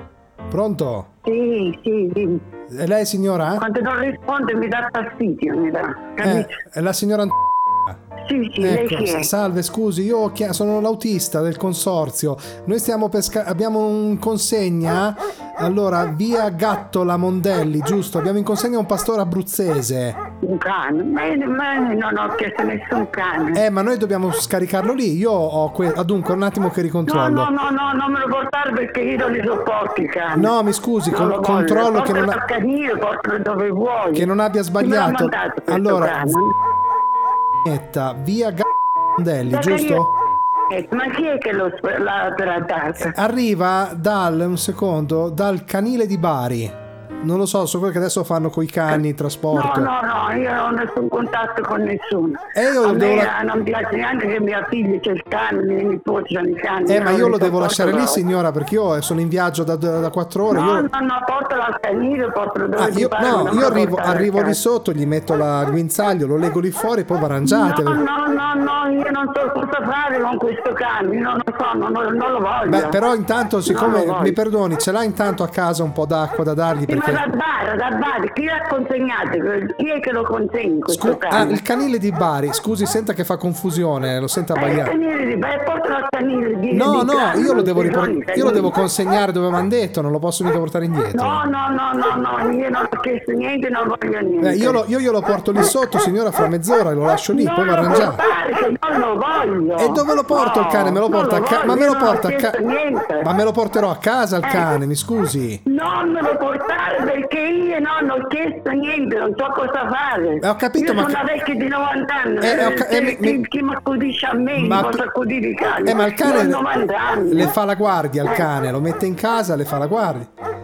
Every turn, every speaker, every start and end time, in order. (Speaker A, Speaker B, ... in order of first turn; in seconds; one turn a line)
Speaker A: 0.5-1.1
Speaker B: 1.2-2.4
Speaker A: 2.7-3.6
Speaker B: 3.6-6.5
Speaker A: 6.2-7.3
Speaker B: 8.2-9.3
Speaker A: 8.6-20.2
Speaker B: 20.4-23.6
Speaker A: 23.5-27.5
Speaker B: 27.1-30.5
Speaker A: 30.3-32.4
Speaker B: 31.1-36.5
Speaker A: 34.1-36.4
Speaker A: 37.6-40.1
Speaker B: 39.5-40.1
Speaker B: 40.7-43.1
Speaker A: 43.0-49.9
Speaker B: 49.5-58.2
Speaker A: 52.5-53.3
Speaker A: 56.9-60.9
Speaker B: 60.5-64.6
Speaker A: 62.8-68.0
Speaker B: 67.4-73.0
Speaker A: 72.7-77.2
Speaker B: 73.7-74.4
Speaker B: 76.9-81.6
Speaker A: 80.9-84.9
Speaker B: 84.5-88.7
Speaker A: 86.7-91.4
Speaker B: 91.1-94.8
Speaker A: 94.4-98.2
Speaker B: 97.3-103.3
Speaker A: 99.8-102.6
Speaker A: 103.2-105.6
Speaker B: 105.7-117.5
Speaker A: 110.4-111.2
Speaker A: 112.4-113.4
Speaker A: 114.5-115.0
Speaker A: 115.8-116.6
Speaker A: 117.3-120.3